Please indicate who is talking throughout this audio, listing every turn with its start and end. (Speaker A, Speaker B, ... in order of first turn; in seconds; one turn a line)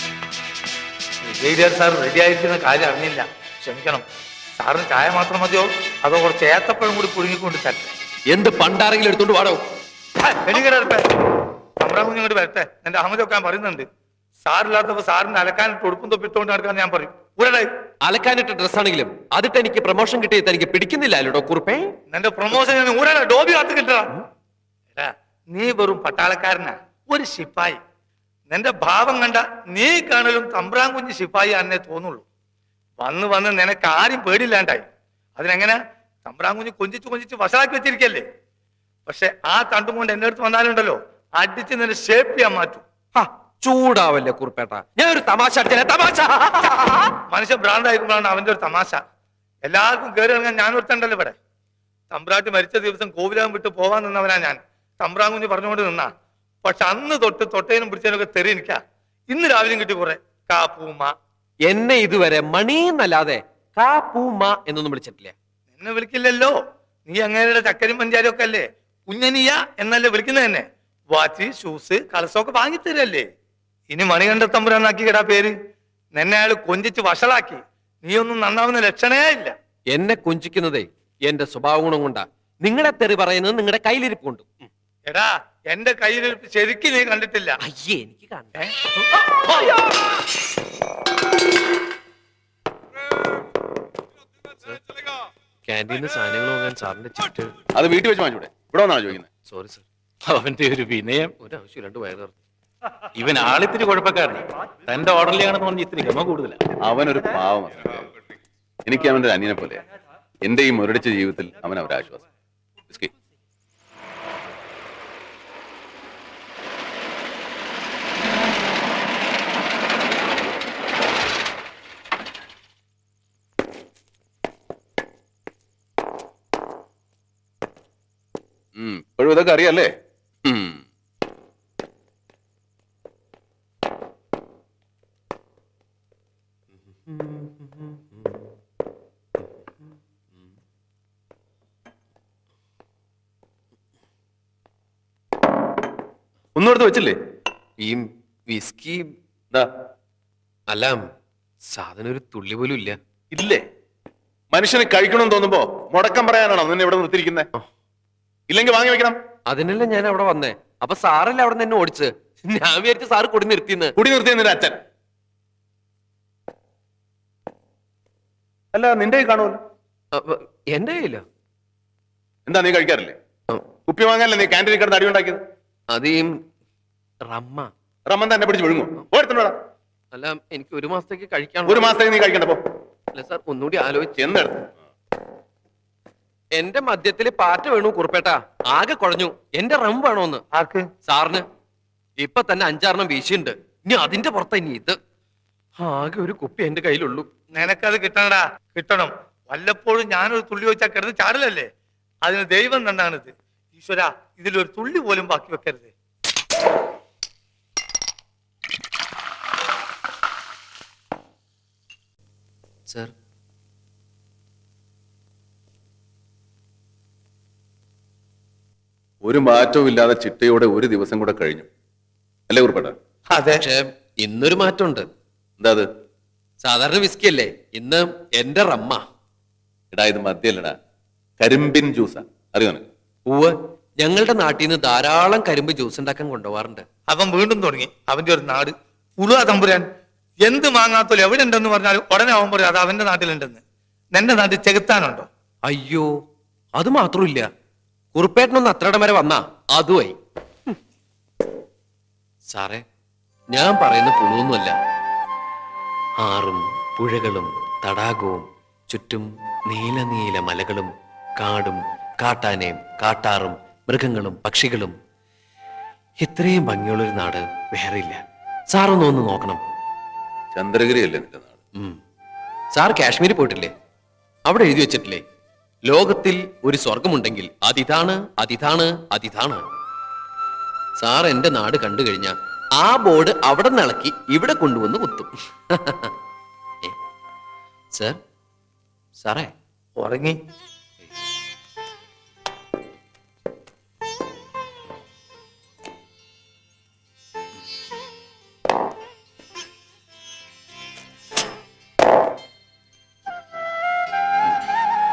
Speaker A: 1.2-4.0
Speaker A: 4.6-7.9
Speaker B: 8.3-9.6
Speaker A: 10.2-11.1
Speaker A: 11.8-13.9
Speaker A: 14.5-17.7
Speaker B: 18.0-21.9
Speaker A: 22.1-24.2
Speaker A: 25.0-27.8
Speaker A: 28.5-32.2
Speaker A: 33.0-34.9
Speaker A: 35.4-38.2
Speaker A: 39.1-42.8
Speaker B: 43.1-47.1
Speaker A: 47.3-49.0
Speaker A: 49.6-51.4
Speaker A: 52.1-56.1
Speaker A: 56.6-58.8
Speaker A: 59.3-61.1
Speaker B: 61.7-65.4
Speaker A: 65.8-66.6
Speaker A: 67.1-73.3
Speaker A: 73.9-75.5
Speaker A: 76.2-79.5
Speaker B: 79.9-84.5
Speaker A: 85.1-87.6
Speaker B: 87.6-88.7
Speaker A: 88.6-89.8
Speaker B: 95.7-97.5
Speaker C: 97.8-99.3
Speaker B: 99.4-99.8
Speaker D: 100.3-101.3
Speaker B: 101.4-102.3
Speaker D: 103.2-106.6
Speaker C: 106.8-108.1
Speaker C: 108.8-109.8
Speaker C: 110.4-112.2
Speaker C: 128.8-129.9
Speaker C: 130.4-130.8
Speaker B: 137.1-138.0
Speaker C: 146.6-147.2
Speaker B: 147.8-149.1
Speaker B: 150.7-151.0
Speaker B: 151.7-153.0
Speaker C: 153.3-153.6
Speaker C: 154.5-157.5
Speaker C: 158.5-159.2
Speaker B: 159.5-163.9
Speaker C: 164.0-164.8
Speaker C: 168.7-169.6
Speaker B: 170.1-171.2
Speaker C: 172.5-173.2
Speaker C: 173.9-175.4
Speaker B: 175.9-176.4
Speaker B: 177.2-177.7
Speaker C: 178.1-179.6
Speaker B: 180.1-181.9
Speaker C: 181.7-182.6
Speaker B: 183.1-184.3
Speaker C: 184.2-184.8
Speaker B: 186.6-190.4
Speaker A: 190.5-190.9
Speaker B: 191.1-191.4
Speaker B: 192.2-195.0
Speaker B: 195.8-197.4
Speaker A: 197.5-201.7
Speaker A: 202.2-205.9
Speaker C: 219.2-221.7
Speaker C: 222.5-223.0
Speaker A: 223.3-223.6
Speaker B: 223.5-225.1
Speaker C: 225.6-225.9
Speaker B: 226.6-229.0
Speaker C: 229.9-230.8
Speaker C: 231.4-232.9
Speaker B: 233.3-236.9
Speaker A: 237.1-239.8
Speaker A: 240.4-243.6
Speaker A: 244.1-245.3
Speaker B: 245.7-246.1
Speaker B: 246.8-247.5
Speaker B: 248.1-250.2
Speaker B: 252.5-252.8
Speaker B: 253.5-254.8
Speaker B: 256.2-264.9
Speaker B: 266.2-269.6
Speaker C: 270.5-271.6
Speaker B: 272.7-273.7
Speaker B: 274.5-275.2
Speaker B: 275.9-279.6
Speaker B: 281.0-286.1
Speaker B: 289.2-289.5
Speaker A: 290.0-290.4